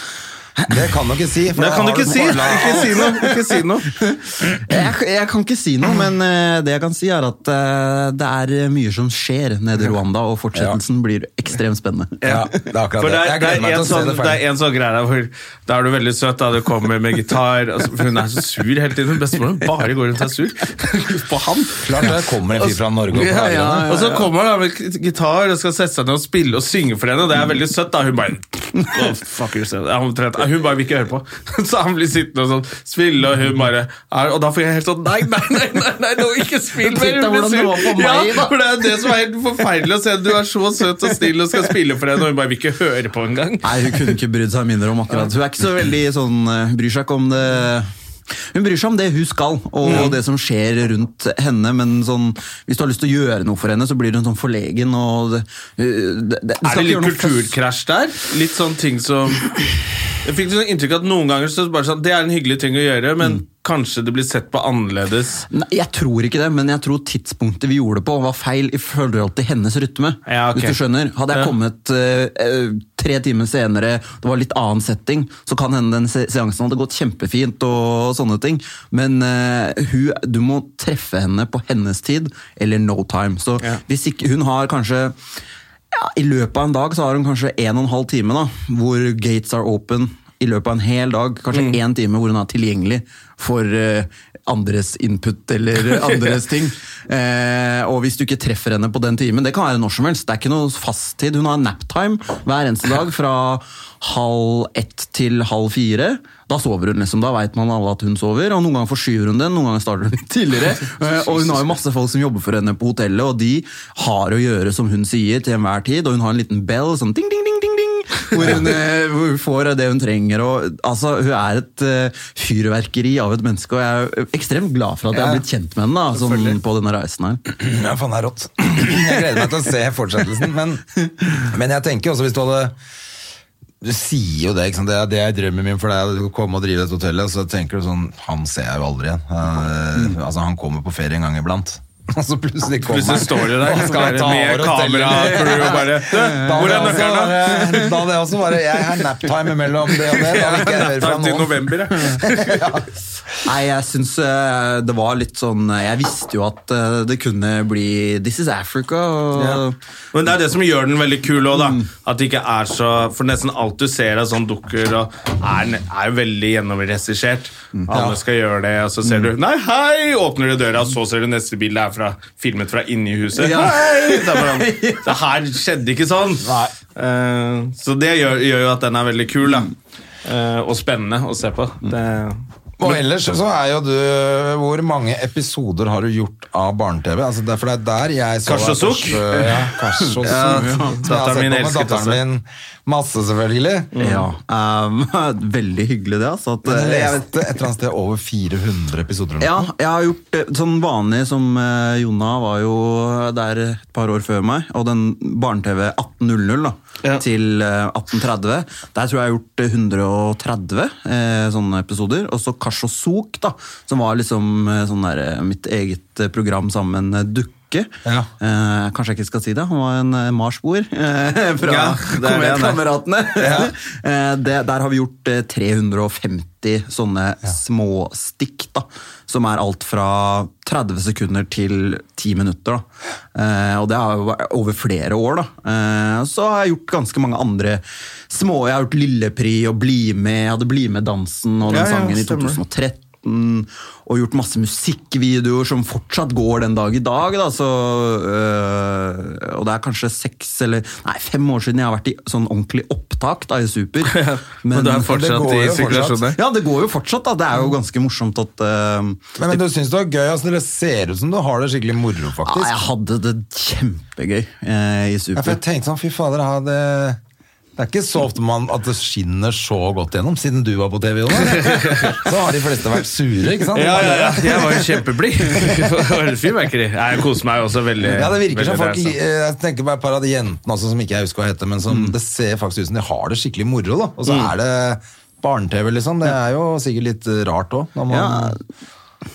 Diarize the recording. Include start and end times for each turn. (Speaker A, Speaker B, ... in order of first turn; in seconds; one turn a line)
Speaker A: 0.7-3.1
Speaker B: 1.6-3.9
Speaker C: 2.2-12.4
Speaker B: 12.2-12.5
Speaker A: 12.2-14.4
Speaker B: 13.0-21.6
Speaker C: 21.3-22.0
Speaker A: 21.8-23.9
Speaker C: 23.1-24.3
Speaker B: 23.4-44.1
Speaker C: 36.8-39.0
Speaker C: 43.6-47.9
Speaker C: 48.5-57.5
Speaker B: 49.8-50.1
Speaker B: 56.6-59.5
Speaker B: 60.2-65.4
Speaker C: 65.5-85.1
Speaker B: 70.3-70.8
Speaker C: 85.9-127.4
Speaker B: 91.5-91.8
Speaker B: 111.0-111.7
Speaker B: 126.1-126.6
Speaker A: 127.5-130.9
Speaker A: 131.4-132.7
Speaker A: 133.8-152.9
Speaker B: 142.8-147.5
Speaker C: 145.3-147.9
Speaker B: 150.1-152.6
Speaker C: 153.4-159.7
Speaker B: 159.3-159.6
Speaker B: 160.1-179.7
Speaker C: 161.5-161.9
Speaker A: 167.9-168.2
Speaker C: 173.3-175.2
Speaker B: 180.2-183.0
Speaker A: 182.8-193.9
Speaker B: 188.4-189.5
Speaker C: 190.0-191.0
Speaker B: 190.2-192.2
Speaker B: 193.9-194.3
Speaker C: 194.0-197.4
Speaker A: 196.6-199.7
Speaker C: 199.4-255.2
Speaker A: 218.0-218.3
Speaker B: 221.6-222.8
Speaker A: 223.3-223.7
Speaker B: 241.7-242.6
Speaker B: 254.0-256.4
Speaker A: 255.0-256.2
Speaker C: 256.3-259.6
Speaker A: 259.4-262.8
Speaker C: 262.4-265.6
Speaker A: 265.4-267.2
Speaker A: 267.8-274.9
Speaker B: 271.4-272.2
Speaker B: 273.7-279.1
Speaker A: 278.0-288.6
Speaker C: 288.1-288.6